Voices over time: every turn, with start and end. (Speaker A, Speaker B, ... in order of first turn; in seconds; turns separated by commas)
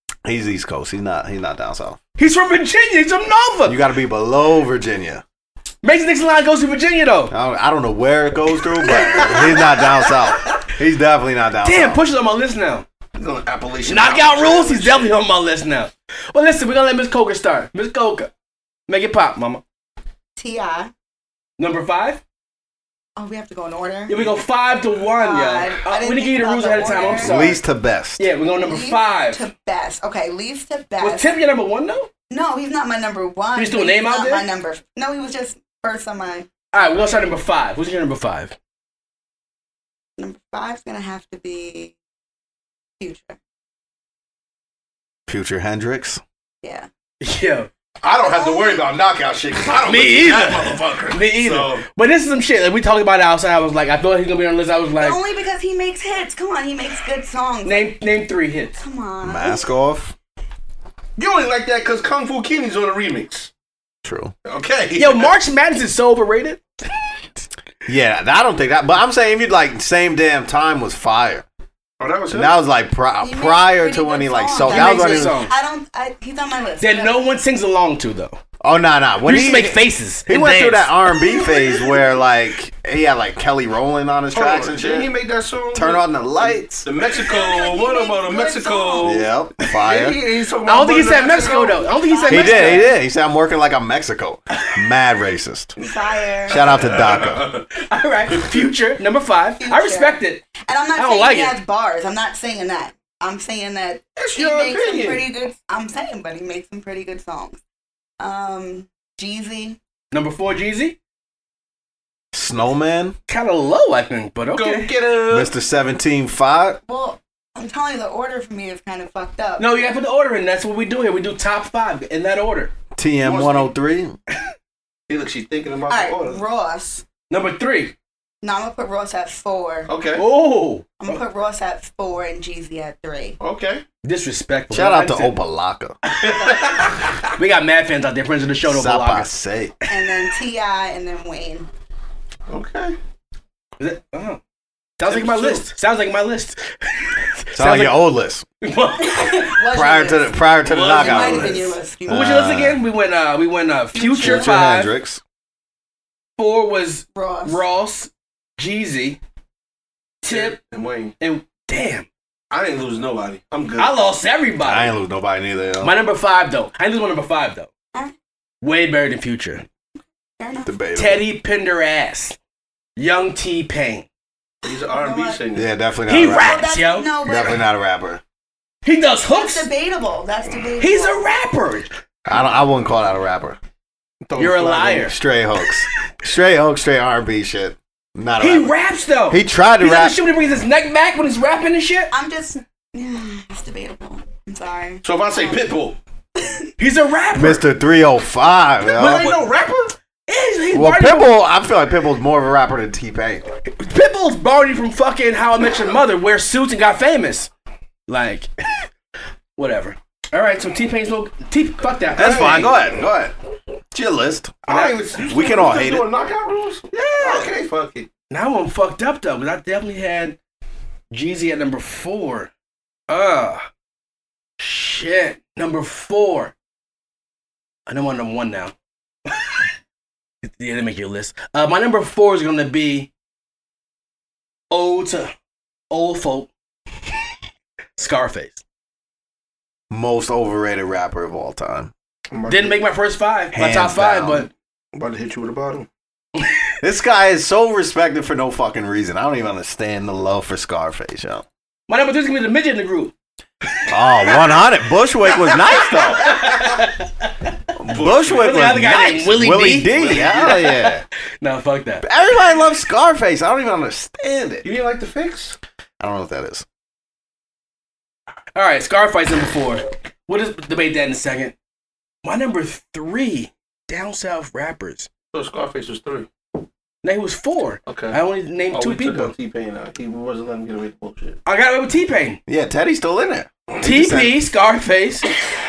Speaker A: 0.2-2.0, Speaker B: 2.2-3.8, Speaker A: 3.6-5.2, Speaker B: 5.8-7.3, Speaker A: 7.3-12.0, Speaker B: 8.8-9.9, Speaker B: 11.6-12.8, Speaker C: 13.1-15.2, Speaker B: 13.8-18.3, Speaker B: 18.9-19.6, Speaker D: 20.4-20.9, Speaker B: 21.6-22.2, Speaker D: 23.1-24.3, Speaker B: 24.1-27.6, Speaker D: 25.2-27.5, Speaker A: 27.2-28.3, Speaker B: 28.2-29.4, Speaker D: 28.6-31.4, Speaker B: 31.0-32.1, Speaker D: 32.3-36.5, Speaker B: 33.5-34.5, Speaker B: 36.7-38.5, Speaker D: 40.2-41.9, Speaker D: 43.0-43.4, Speaker A: 45.3-46.2, Speaker D: 46.6-46.9, Speaker B: 47.2-47.7, Speaker C: 48.0-51.8, Speaker D: 48.1-48.9, Speaker B: 49.8-55.2, Speaker D: 55.0-57.9, Speaker B: 57.6-58.8, Speaker D: 58.8-59.7, Speaker A: 59.2-60.1, Speaker C: 61.2-63.5, Speaker A: 64.0-64.3, Speaker C: 64.4-65.3, Speaker B: 65.0-66.6, Speaker A: 67.9-71.4, Speaker C: 72.0-72.5, Speaker A: 72.3-75.4, Speaker D: 73.2-77.3, Speaker B: 74.6-75.5, Speaker B: 76.8-78.4, Speaker A: 78.6-85.1, Speaker B: 79.2-80.9, Speaker D: 81.2-82.2, Speaker C: 84.3-91.7, Speaker A: 85.7-86.8, Speaker D: 87.1-89.2, Speaker A: 89.0-90.2, Speaker B: 90.7-92.9, Speaker D: 91.4-92.9, Speaker A: 92.3-95.7, Speaker D: 95.8-96.8, Speaker C: 96.5-97.7, Speaker A: 96.5-97.5, Speaker B: 97.7-101.5, Speaker C: 98.3-98.7, Speaker D: 99.6-107.6, Speaker C: 104.2-105.3, Speaker D: 108.2-109.8, Speaker B: 110.1-111.0, Speaker A: 112.3-113.1, Speaker B: 113.3-114.9, Speaker C: 114.5-115.5, Speaker A: 115.3-116.8, Speaker D: 116.8-119.8, Speaker B: 119.6-122.7, Speaker A: 123.0-124.2, Speaker C: 123.2-123.7, Speaker C: 125.1-126.4, Speaker D: 125.9-127.0, Speaker B: 127.3-127.9, Speaker D: 128.4-129.9, Speaker C: 129.9-130.2, Speaker B: 130.2-131.2, Speaker D: 131.0-133.4, Speaker C: 133.4-133.8, Speaker B: 134.0-135.3, Speaker A: 134.7-135.9, Speaker B: 136.1-139.3, Speaker C: 136.2-137.1, Speaker A: 138.6-139.7, Speaker D: 139.9-141.7, Speaker C: 142.5-142.9, Speaker B: 143.8-144.4, Speaker B: 145.0-148.0, Speaker C: 145.1-145.6, Speaker A: 147.5-148.4, Speaker B: 148.6-149.6, Speaker D: 149.0-152.5, Speaker A: 149.7-152.8, Speaker B: 150.7-154.9, Speaker C: 153.9-154.4, Speaker A: 154.2-155.2, Speaker B: 156.4-159.2, Speaker D: 157.1-157.6, Speaker B: 160.2-160.6, Speaker C: 160.3-161.1, Speaker B: 161.2-162.1, Speaker C: 162.5-163.9, Speaker B: 163.8-164.9, Speaker A: 164.6-165.9, Speaker B: 165.8-167.7, Speaker B: 168.6-169.7, Speaker D: 170.4-170.7, Speaker A: 170.6-171.2, Speaker B: 170.9-172.4, Speaker B: 173.0-174.1, Speaker C: 174.6-175.7, Speaker D: 174.9-175.4, Speaker A: 175.5-176.7, Speaker B: 176.1-177.1, Speaker D: 176.2-177.7, Speaker A: 177.2-178.2, Speaker B: 178.8-179.7, Speaker D: 179.2-181.2, Speaker B: 180.8-181.9, Speaker A: 182.2-183.6, Speaker C: 184.2-185.1, Speaker B: 184.4-185.1, Speaker A: 185.0-188.7, Speaker B: 188.4-192.1, Speaker A: 189.3-190.2, Speaker D: 192.1-195.7, Speaker C: 195.0-196.0, Speaker D: 196.3-196.7, Speaker B: 196.8-197.6, Speaker A: 197.3-199.3, Speaker C: 198.9-199.9, Speaker B: 200.3-201.3, Speaker A: 200.7-203.4, Speaker B: 203.7-207.5, Speaker B: 208.1-208.5, Speaker B: 209.6-212.8, Speaker A: 212.2-213.3, Speaker C: 212.2-212.9, Speaker A: 213.9-216.1, Speaker C: 214.7-218.1, Speaker A: 216.9-217.5, Speaker B: 218.3-220.4, Speaker B: 221.1-222.5, Speaker B: 223.1-223.7, Speaker B: 224.6-226.5, Speaker B: 227.9-228.7, Speaker B: 230.4-233.1, Speaker B: 234.7-235.3, Speaker B: 235.9-236.5, Speaker B: 238.0-238.6, Speaker A: 239.9-241.9, Speaker C: 242.3-242.8, Speaker B: 242.5-244.5, Speaker A: 243.5-244.5, Speaker C: 244.9-245.9, Speaker A: 246.8-251.4, Speaker B: 251.9-253.1, Speaker B: 253.7-254.6, Speaker A: 253.9-256.5, Speaker B: 255.3-257.5, Speaker A: 257.8-261.0, Speaker C: 257.9-258.6, Speaker B: 258.3-262.1, Speaker C: 259.9-260.7, Speaker A: 262.0-264.6, Speaker C: 264.6-265.6, Speaker A: 266.0-266.6, Speaker B: 268.5-271.5, Speaker B: 272.2-275.1, Speaker C: 275.3-276.3, Speaker B: 277.0-279.3, Speaker C: 277.9-278.2, Speaker C: 278.7-281.4, Speaker B: 281.4-282.4, Speaker A: 282.5-284.4, Speaker B: 283.8-285.3